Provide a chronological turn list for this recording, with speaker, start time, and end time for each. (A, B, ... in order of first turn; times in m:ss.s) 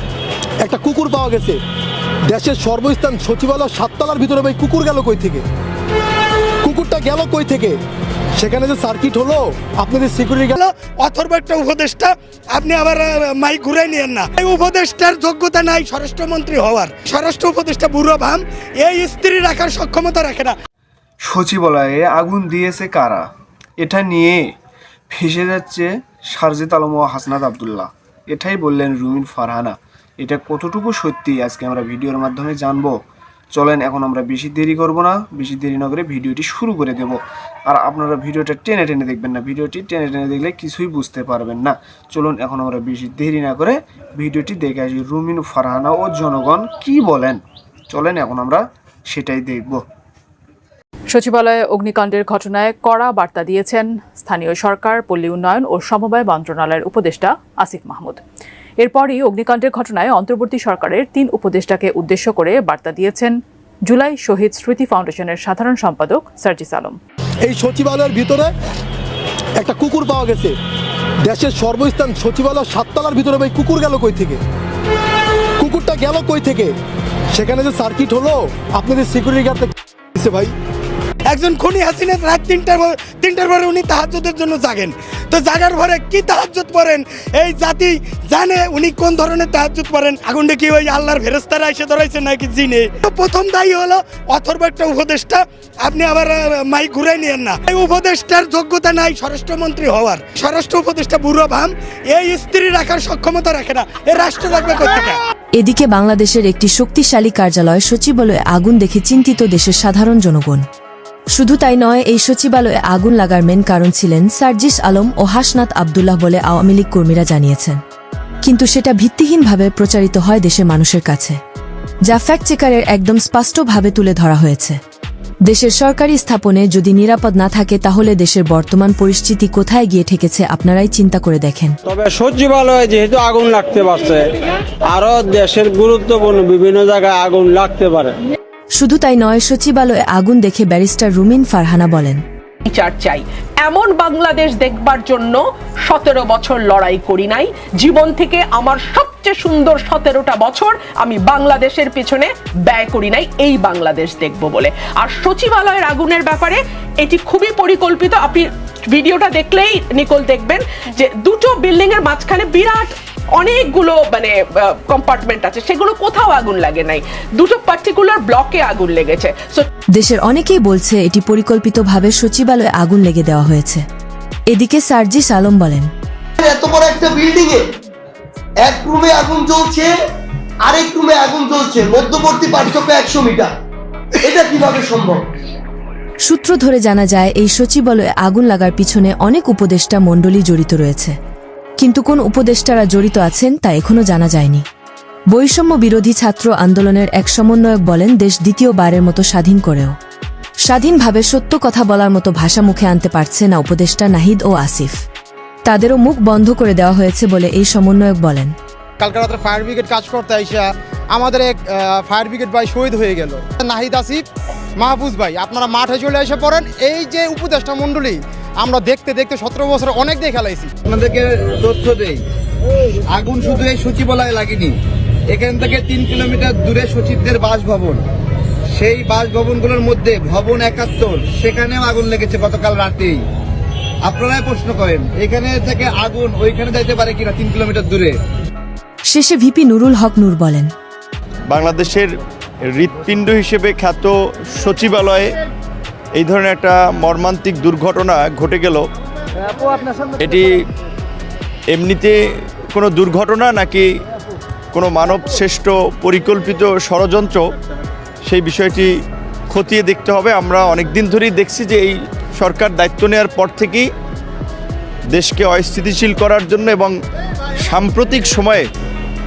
0:00.6-0:01.6 A
0:02.3-0:05.4 A
0:06.6-0:07.8 A
0:08.4-0:10.5 A
0:10.5-0:20.5 B
0:21.2-0:23.2 C
0:23.8-0:24.4 C
0:25.1-0:32.9 C
0:33.5-0:49.8 C
0:51.1-0:58.2 D
0:58.8-1:03.3 D
1:03.8-1:07.0 D
1:07.4-1:08.5 A
1:09.6-1:10.6 A
1:11.2-1:14.4 A
1:15.6-1:16.7 A
1:17.3-1:20.5 A
1:21.2-1:45.2 B
1:45.6-1:50.6 E
1:51.3-1:57.8 E
1:58.4-2:01.4 E
2:02.1-2:04.8 E
2:05.5-2:11.8 E
2:11.8-2:14.3 F
2:14.8-2:18.2 F
2:18.8-2:22.2 E
2:22.6-2:49.7 G
2:50.0-2:53.8 E
2:54.5-2:55.9 E
2:56.4-2:57.6 H
2:58.6-2:59.9 H
3:00.6-3:03.5 H
3:04.2-3:05.2 H
3:06.2-3:11.1 E
3:11.8-3:14.6 E
3:15.3-3:19.9 E
3:20.6-3:25.0 E
3:25.6-3:28.5 E
3:29.0-3:34.2 I
3:34.8-3:40.7 I
3:40.9-3:42.2 J
3:43.1-3:44.7 J
3:45.3-3:48.0 J
3:48.7-3:53.2 J
3:54.0-3:58.1 J
3:59.1-4:00.7 E
4:01.5-4:02.2 K
4:02.7-4:05.3 K
4:06.1-4:08.8 K
4:10.2-4:10.5 K
4:11.7-4:12.1 K
4:12.7-4:13.9 K
4:14.7-4:17.4 K
4:18.2-4:18.9 K
4:19.5-4:23.8 K
4:25.1-4:26.9 K
4:27.6-4:28.7 K